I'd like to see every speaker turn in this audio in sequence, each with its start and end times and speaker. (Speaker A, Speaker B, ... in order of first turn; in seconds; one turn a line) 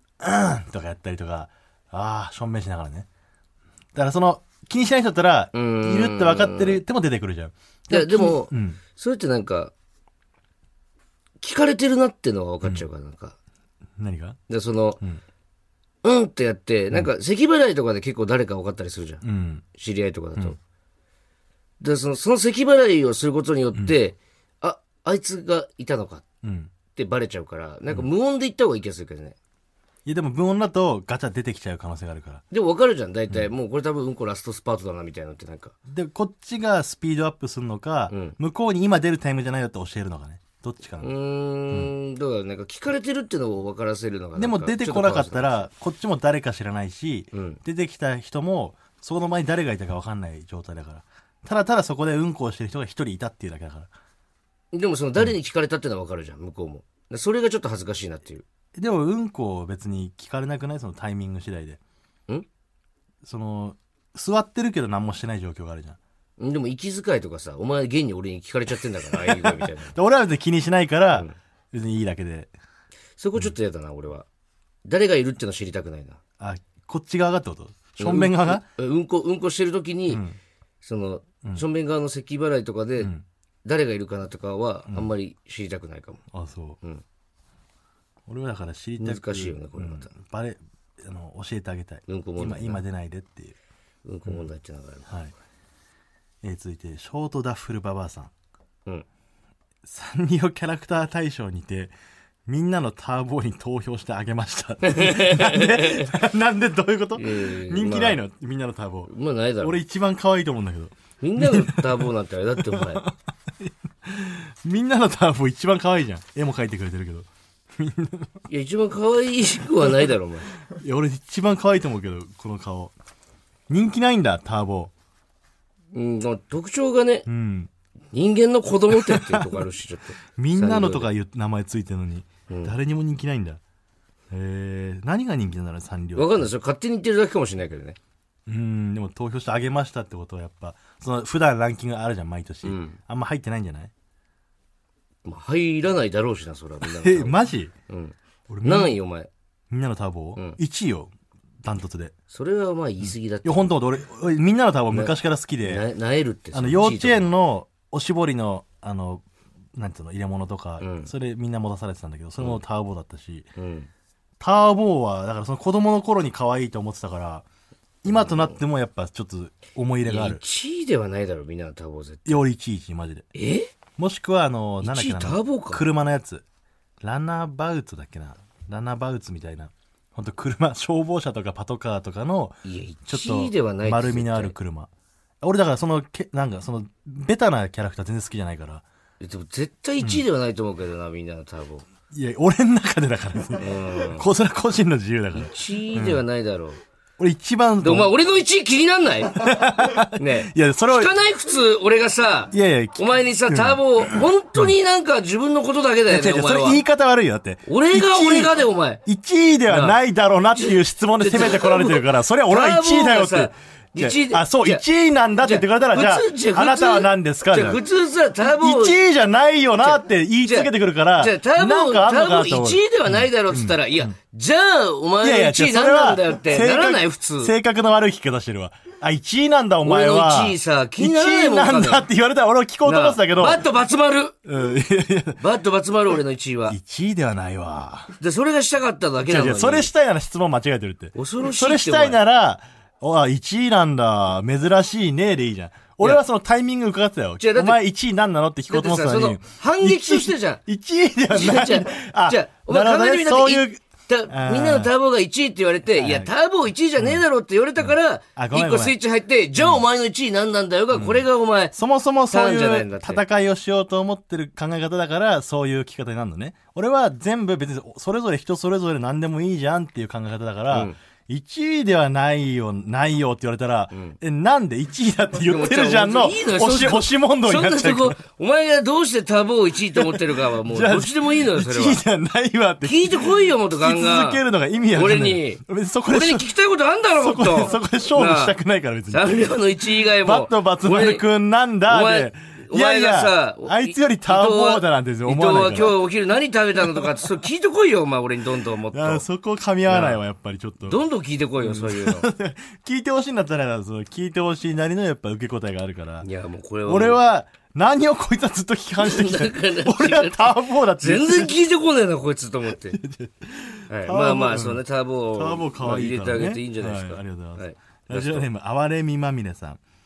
Speaker A: 0.2-3.1
Speaker A: 3.9-8.8
Speaker B: 5.5-6.8
Speaker B: 7.9-9.7
Speaker B: 11.4-13.3
Speaker A: 14.0-14.4
Speaker B: 14.5-15.0
Speaker B: 16.0-19.2
Speaker A: 19.2-19.6
Speaker B: 19.7-20.6
Speaker B: 21.8-26.2
Speaker A: 26.4-26.7
Speaker B: 26.9-29.4
Speaker A: 30.1-32.4
Speaker B: 32.5-35.7
Speaker A: 35.9-41.1
Speaker B: 38.1-38.4
Speaker B: 41.0-45.7
Speaker A: 44.4-53.9
Speaker B: 47.3-47.6
Speaker B: 54.7-58.4
Speaker A: 58.7-61.8
Speaker A: 63.2-66.0
Speaker B: 66.4-69.9
Speaker A: 69.2-72.5
Speaker B: 73.2-74.2
Speaker B: 74.8-76.2
Speaker A: 76.4-78.6
Speaker B: 78.0-80.2
Speaker A: 80.1-80.4
Speaker B: 80.8-83.1
Speaker B: 83.6-86.2
Speaker A: 86.3-86.8
Speaker A: 88.3-93.5
Speaker B: 89.0-90.1
Speaker B: 92.1-92.8
Speaker B: 94.0-95.1
Speaker A: 95.1-95.3
Speaker A: 96.4-98.3
Speaker A: 99.8-101.9
Speaker A: 102.5-109.1
Speaker B: 104.8-106.1
Speaker B: 107.2-108.2
Speaker B: 109.1-109.8
Speaker A: 109.6-112.0
Speaker B: 111.2-113.1
Speaker A: 112.7-118.3
Speaker B: 118.5-120.5
Speaker A: 120.7-122.9
Speaker A: 123.7-124.9
Speaker B: 125.9-127.3
Speaker A: 127.3-127.7
Speaker B: 128.1-131.1
Speaker A: 128.9-129.6
Speaker A: 130.4-133.6
Speaker A: 134.3-136.5
Speaker B: 136.2-138.0
Speaker A: 138.5-143.9
Speaker B: 142.6-143.0
Speaker B: 145.2-149.3
Speaker A: 146.8-147.7
Speaker A: 148.5-149.0
Speaker A: 149.7-151.1
Speaker A: 151.6-152.1
Speaker B: 152.3-153.7
Speaker A: 153.0-155.8
Speaker B: 154.9-157.3
Speaker A: 156.5-159.2
Speaker A: 159.8-163.5
Speaker B: 160.8-161.1
Speaker B: 163.6-163.9
Speaker A: 164.4-167.4
Speaker A: 168.0-170.4
Speaker B: 168.1-168.6
Speaker B: 170.0-172.4
Speaker A: 172.2-173.2
Speaker B: 173.3-173.7
Speaker A: 174.0-176.4
Speaker B: 174.8-175.8
Speaker A: 177.0-182.5
Speaker B: 182.6-184.5
Speaker A: 183.1-184.9
Speaker A: 185.4-188.8
Speaker B: 189.2-191.8
Speaker A: 192.1-196.2
Speaker B: 193.6-194.2
Speaker B: 195.3-196.8
Speaker A: 197.2-198.1
Speaker B: 197.8-199.3
Speaker A: 199.3-201.1
Speaker B: 200.2-206.8
Speaker A: 202.5-204.7
Speaker A: 206.1-217.8
Speaker B: 207.7-209.0
Speaker B: 209.7-210.0
Speaker B: 210.5-214.8
Speaker B: 215.4-219.0
Speaker A: 218.4-224.1
Speaker B: 219.8-227.5
Speaker A: 225.2-233.6
Speaker B: 229.8-232.1
Speaker B: 232.8-234.3
Speaker A: 234.4-235.4
Speaker B: 235.4-236.8
Speaker A: 236.7-238.1
Speaker B: 238.2-239.9
Speaker A: 239.3-254.9
Speaker B: 241.1-242.2
Speaker B: 247.4-247.8
Speaker B: 248.7-250.6
Speaker B: 251.3-261.7
Speaker A: 255.9-256.3
Speaker A: 257.0-257.2
Speaker A: 257.8-258.9
Speaker A: 259.6-259.8
Speaker A: 260.9-278.2
Speaker B: 262.3-263.2
Speaker B: 270.7-270.9
Speaker B: 273.9-274.2
Speaker B: 275.4-282.0
Speaker A: 279.9-286.5
Speaker B: 282.8-284.4
Speaker B: 284.9-288.6
Speaker A: 287.2-296.0
Speaker B: 289.1-291.2
Speaker B: 291.9-299.2
Speaker A: 298.9-301.0
Speaker B: 299.9-300.2
Speaker B: 300.8-302.2
Speaker A: 301.6-306.3
Speaker B: 306.2-307.2
Speaker A: 306.8-311.5
Speaker B: 309.0-313.0
Speaker A: 312.8-314.8
Speaker B: 313.9-318.5
Speaker A: 315.3-319.8